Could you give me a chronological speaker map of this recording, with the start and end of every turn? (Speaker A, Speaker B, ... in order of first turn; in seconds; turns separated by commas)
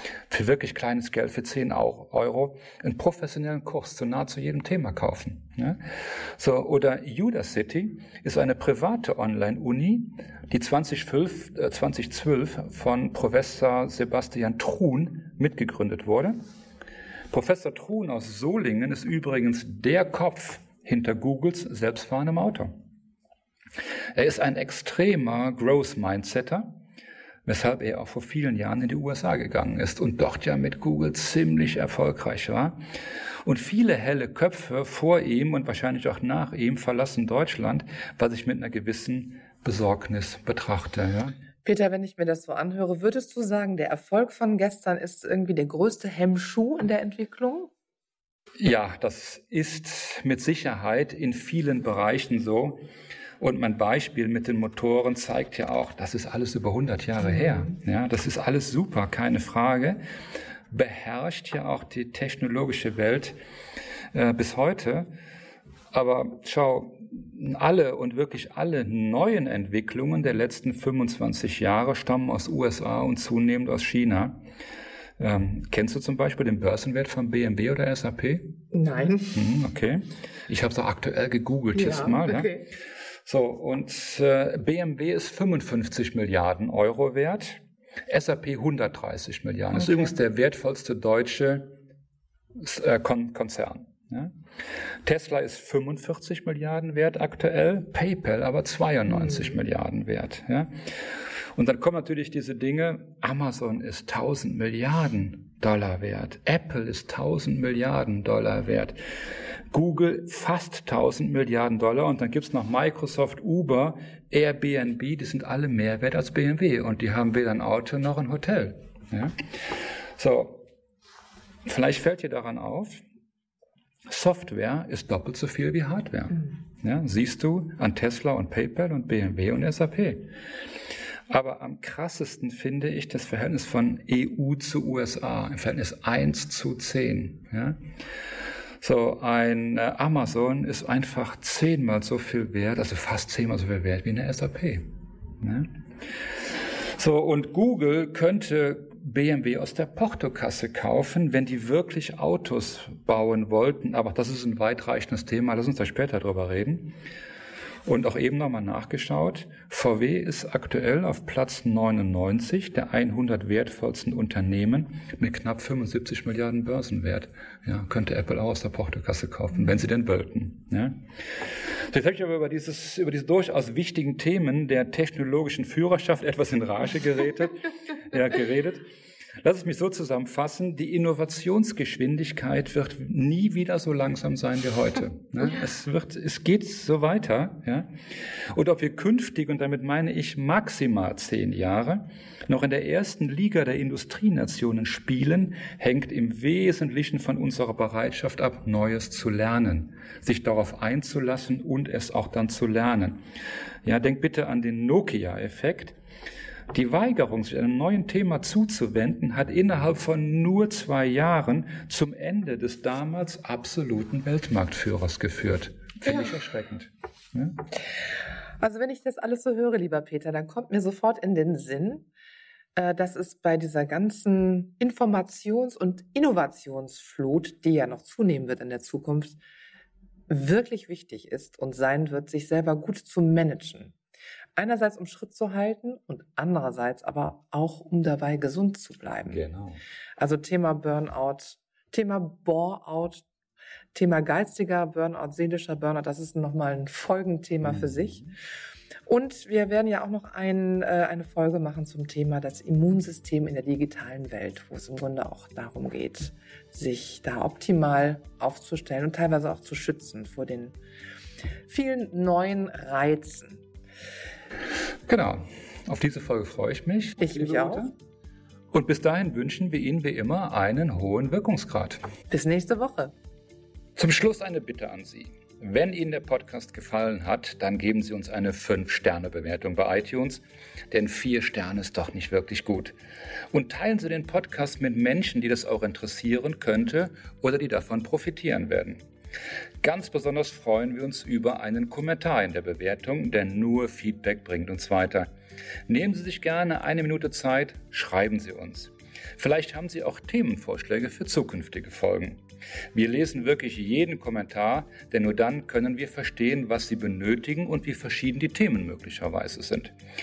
Speaker A: 0.3-5.8, Speaker A: 6.4-16.3, Speaker A: 17.3-22.7, Speaker A: 24.1-26.7, Speaker A: 27.5-32.8, Speaker A: 33.5-41.3, Speaker B: 41.6-47.7, Speaker A: 48.6-52.8, Speaker A: 53.4-60.0, Speaker B: 57.4-57.7, Speaker A: 60.7-63.4, Speaker A: 64.1-65.1, Speaker A: 65.9-74.4, Speaker A: 75.2-78.5, Speaker B: 78.7-79.4, Speaker A: 79.3-82.6, Speaker B: 81.7-82.7, Speaker A: 83.2-91.7, Speaker A: 92.6-94.3, Speaker A: 95.0-100.7, Speaker A: 101.5-109.0, Speaker A: 109.7-119.3, Speaker A: 120.2-120.6, Speaker A: 121.7-123.0, Speaker A: 124.1-130.3, Speaker A: 131.3-137.8, Speaker A: 138.8-144.8, Speaker A: 145.4-145.7, Speaker A: 147.0-156.9, Speaker A: 157.9-178.8, Speaker A: 179.4-187.9, Speaker A: 188.5-203.2, Speaker A: 203.8-206.0, Speaker A: 206.7-217.6, Speaker B: 218.6-222.1, Speaker B: 222.8-229.4, Speaker B: 230.3-233.9, Speaker B: 234.6-239.4, Speaker A: 239.3-239.8, Speaker B: 240.2-243.2, Speaker B: 243.9-248.2, Speaker A: 247.6-248.3, Speaker B: 249.1-260.8, Speaker B: 261.7-263.6, Speaker A: 265.1-267.9, Speaker B: 267.2-267.9, Speaker A: 268.7-272.0, Speaker B: 272.3-273.1, Speaker A: 274.0-282.9, Speaker A: 283.5-289.1, Speaker A: 289.8-295.3, Speaker A: 295.9-302.4, Speaker A: 302.9-309.9